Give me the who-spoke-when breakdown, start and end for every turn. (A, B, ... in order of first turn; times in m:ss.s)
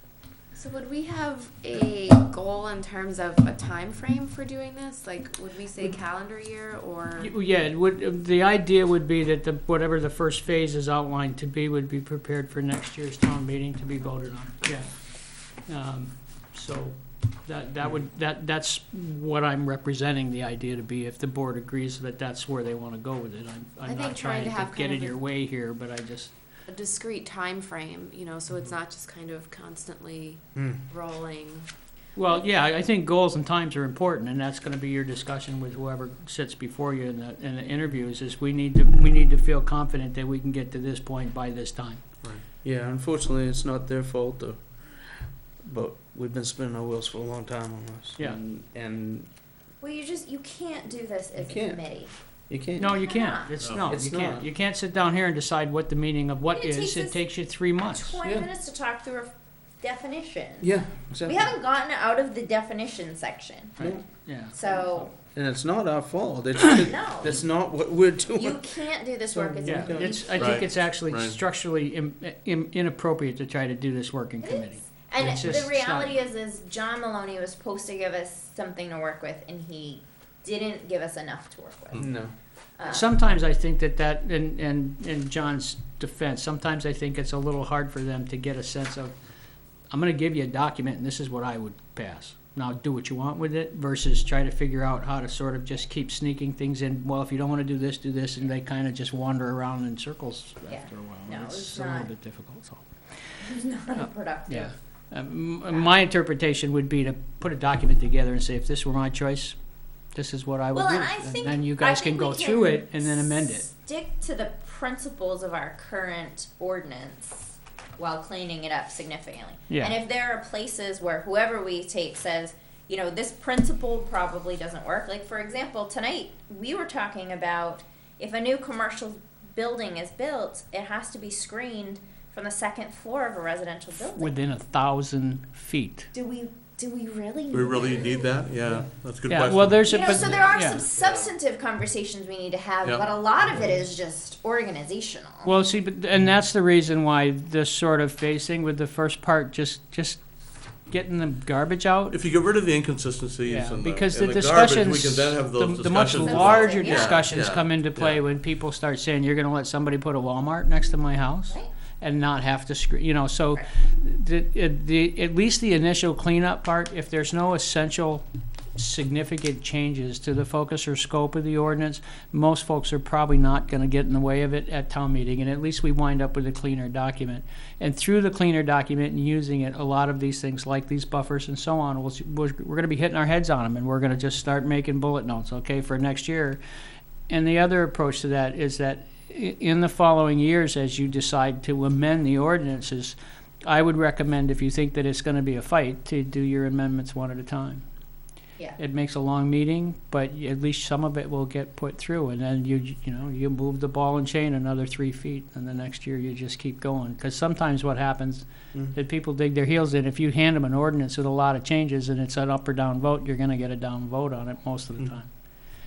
0:00.5-0:07.3 A
0:07.2-0:26.3 B
0:23.9-0:25.2 A
0:26.7-0:31.7 A
0:32.1-0:42.0 B
0:42.6-0:49.3 C
0:49.8-0:52.1 D
0:51.4-0:51.8 C
0:52.5-0:53.0 C
0:52.8-0:58.2 B
0:52.8-0:53.5 D
0:53.6-0:53.9 E
0:53.8-0:54.5 C
0:56.5-0:57.2 D
0:57.8-1:03.8 D
1:00.6-1:01.5 C
1:03.8-1:04.6 B
1:03.8-1:04.0 C
1:04.5-1:05.1 D
1:05.2-1:08.7 C
1:06.9-1:07.5 D
1:08.4-1:10.5 D
1:09.3-1:10.2 C
1:09.6-1:16.2 B
1:10.3-1:11.4 E
1:14.4-1:22.1 D
1:22.0-1:22.3 C
1:22.8-1:23.1 D
1:22.8-1:29.2 B
1:29.9-1:42.8 B
1:40.7-1:42.1 D
1:43.4-1:44.7 D
1:44.0-1:49.6 B
1:50.1-1:53.7 B
1:50.7-2:14.3 D
1:59.7-2:00.0 B
2:14.2-2:16.1 B
2:16.1-2:18.4 D
2:17.5-2:20.4 E
2:19.2-2:20.8 B
2:19.8-2:25.5 D
2:25.4-2:30.2 B
2:30.9-2:32.2 B
2:32.1-2:38.2 E
2:33.5-2:48.2 B
2:36.2-2:37.2 D
2:48.8-3:06.6 B
3:07.3-3:17.8 B
3:18.8-3:35.3 B